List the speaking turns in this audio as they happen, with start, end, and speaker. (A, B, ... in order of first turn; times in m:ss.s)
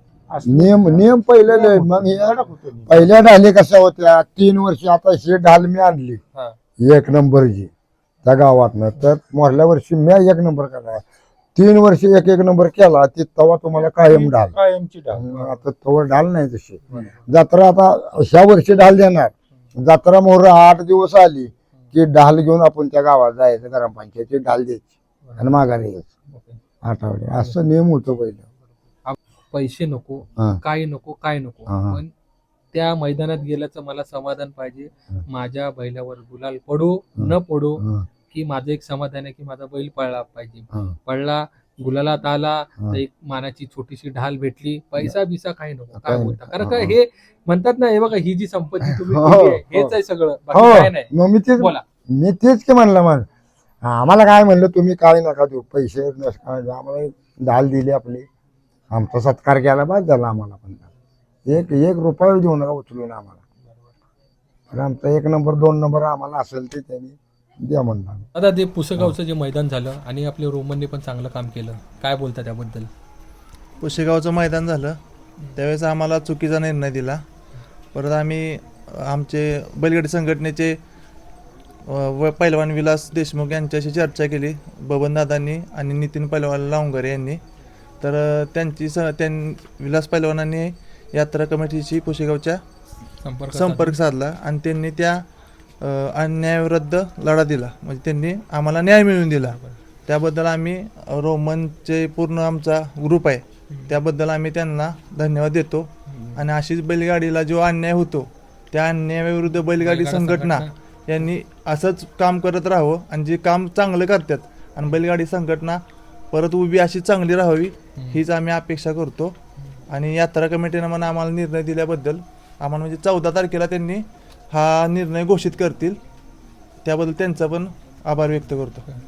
0:00.3-0:03.1 A
0:00.4-0:06.2 B
0:06.8-0:07.7 B
0:08.2-0:11.0 B
0:11.6-0:14.6 B
0:14.0-0:15.3 A
0:15.1-0:26.1 B
0:16.9-0:17.2 C
0:25.2-0:25.5 C
0:26.3-0:26.6 C
0:26.8-0:28.5 B
0:29.1-0:32.1 C
0:31.7-0:32.0 B
0:32.7-0:51.8 C
0:37.2-0:38.1 B
0:46.0-0:47.0 B
0:48.9-0:50.0 B
0:50.5-0:53.3 B
0:53.8-0:58.3 B
0:58.9-1:00.9 B
1:01.5-1:03.4 B
1:04.7-1:08.3 B
1:08.3-1:12.9 C
1:13.8-1:15.0 D
1:15.6-1:17.2 D
1:17.9-1:20.8 D
1:21.9-1:27.4 D
1:28.0-1:32.6 D
1:33.2-1:34.0 C
1:33.5-1:35.2 D
1:35.8-1:59.4 D
1:39.5-1:39.8 C
1:43.7-1:43.9 C
1:46.1-1:46.4 C
1:49.8-1:50.7 C
1:58.0-1:58.2 C
1:59.9-2:06.0 D
2:06.8-2:08.9 D